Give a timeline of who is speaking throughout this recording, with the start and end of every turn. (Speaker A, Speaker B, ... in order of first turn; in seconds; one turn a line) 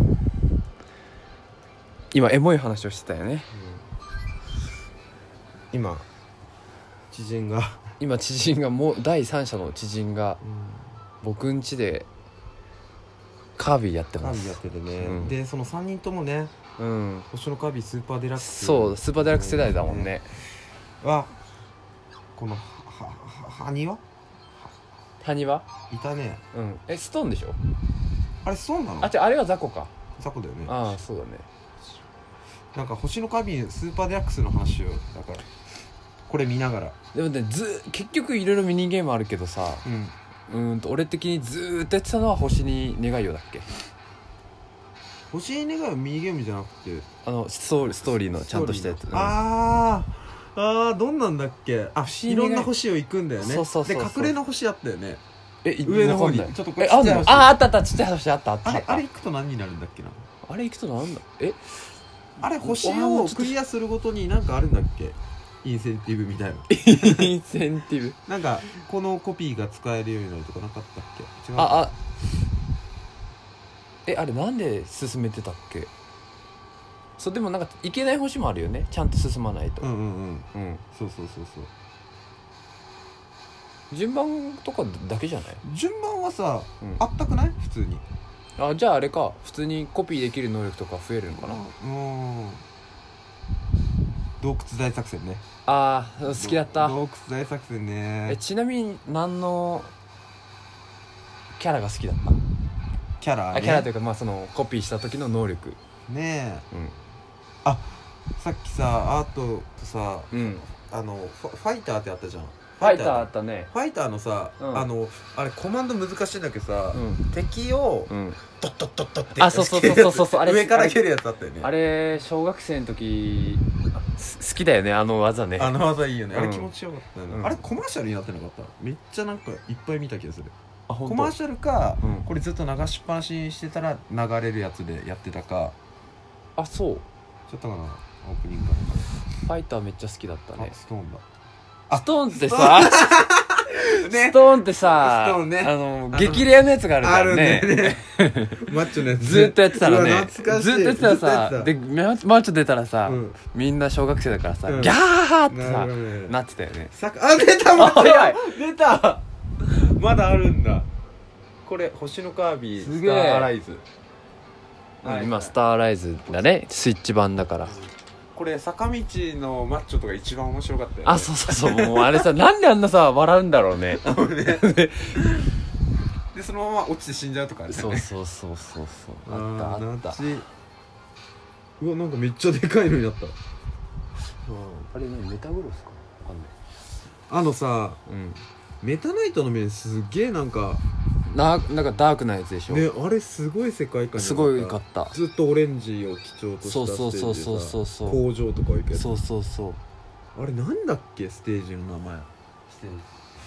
Speaker A: 2.1-3.5
Speaker B: 3.5-3.8
Speaker B: 5.7-6.1
Speaker B: 7.1-7.8
Speaker A: 8.0-10.4
Speaker B: 10.4-10.9
Speaker A: 11.2-12.1
Speaker A: 13.6-15.3
Speaker B: 14.2-16.5
Speaker A: 16.8-17.3
Speaker B: 17.3-20.2
Speaker A: 18.4-20.3
Speaker B: 21.0-21.3
Speaker B: 22.3-24.0
Speaker A: 25.2-25.6
Speaker B: 25.9-26.4
Speaker A: 26.5-27.6
Speaker B: 28.4-29.1
Speaker A: 29.0-29.9
Speaker B: 30.2-31.0
Speaker A: 30.6-31.4
Speaker B: 32.7-35.5
Speaker B: 36.3-37.0
Speaker A: 37.1-39.9
Speaker B: 39.8-40.1
Speaker A: 40.5-43.6
Speaker B: 45.3-47.1
Speaker A: 47.2-49.4
Speaker B: 48.1-55.2
Speaker A: 52.0-52.7
Speaker A: 53.4-54.3
Speaker A: 55.6-59.0
Speaker B: 55.8-57.5
Speaker B: 58.6-60.2
Speaker A: 60.4-61.9
Speaker B: 62.4-67.3
Speaker A: 62.6-63.5
Speaker A: 66.7-68.2
Speaker B: 68.2-71.9
Speaker A: 71.5-71.9
Speaker A: 74.0-75.9
Speaker A: 77.2-79.9
Speaker B: 79.8-81.7
Speaker A: 80.5-80.8
Speaker A: 83.9-85.6
Speaker B: 85.6-88.0
Speaker A: 88.6-91.6
Speaker B: 91.3-92.6
Speaker B: 94.4-95.4
Speaker A: 95.7-97.0
Speaker B: 96.3-98.4
Speaker A: 98.3-99.9
Speaker A: 101.6-102.4
Speaker B: 103.2-103.9
Speaker A: 103.5-105.8
Speaker B: 106.1-106.7
Speaker B: 107.6-121.7
Speaker A: 110.3-110.6
Speaker A: 112.8-113.7
Speaker A: 114.6-114.9
Speaker A: 116.9-117.2
Speaker A: 118.1-118.4
Speaker A: 119.3-121.0
Speaker A: 121.6-125.7
Speaker B: 125.5-135.8
Speaker A: 126.3-126.7
Speaker A: 127.3-127.6
Speaker A: 130.9-131.3
Speaker A: 132.0-132.3
Speaker A: 136.6-137.0
Speaker B: 137.5-139.1
Speaker A: 139.4-140.7
Speaker B: 140.6-141.2
Speaker B: 141.9-146.5
Speaker A: 141.9-143.1
Speaker A: 143.8-156.9
Speaker B: 147.0-151.7
Speaker B: 153.0-153.4
Speaker B: 154.7-156.4
Speaker B: 156.9-160.9
Speaker A: 157.7-158.4
Speaker B: 161.6-163.8
Speaker A: 162.8-163.5
Speaker B: 165.0-165.6
Speaker A: 165.0-167.8
Speaker B: 168.3-172.3
Speaker A: 171.0-175.2
Speaker B: 173.9-175.2
Speaker B: 176.3-178.1
Speaker A: 177.7-180.2
Speaker B: 179.2-180.4
Speaker B: 181.8-183.4
Speaker A: 184.5-186.5
Speaker B: 187.3-188.0
Speaker A: 188.1-188.4
Speaker B: 188.8-190.8
Speaker A: 191.3-192.9
Speaker B: 192.7-199.2
Speaker A: 194.2-195.1
Speaker A: 196.6-198.2
Speaker A: 198.9-199.8
Speaker B: 200.3-203.1